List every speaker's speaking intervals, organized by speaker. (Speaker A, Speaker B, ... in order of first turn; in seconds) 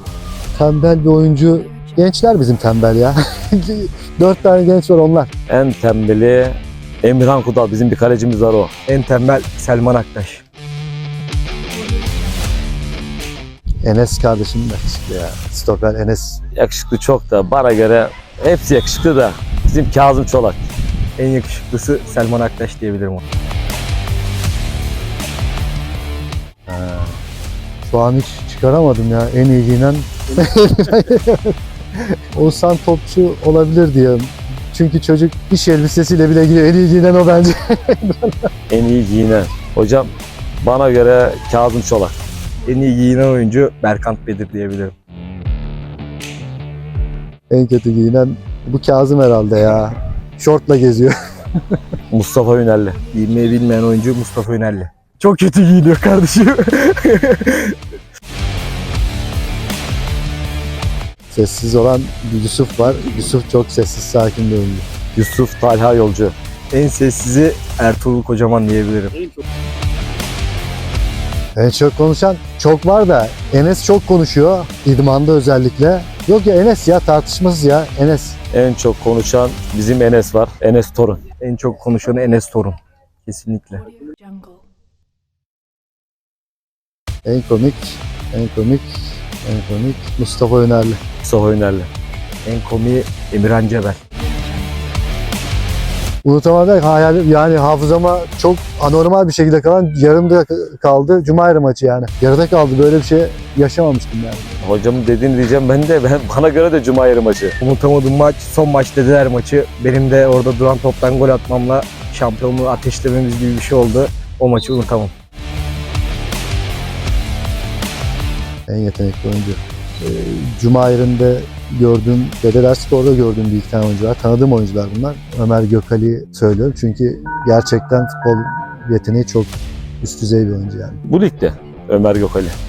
Speaker A: 0.5-5.3, 13.8-16.4, 26.7-27.2, 27.8-31.5, 32.3-38.5, 47.5-51.1, 61.3-64.9, 71.5-78.4, 87.2-91.0, 96.2-104.5, 118.7-131.0
Speaker B: 5.5-8.7, 16.6-20.6, 38.7-42.1, 52.1-53.0, 65.2-66.3, 78.5-81.2, 91.2-91.9, 104.6-107.6, 131.1-132.5
Speaker C: 8.9-10.4, 21.2-23.2, 42.6-44.9, 53.1-57.7, 66.7-69.2, 81.4-83.9, 92.4-94.0, 107.6-115.1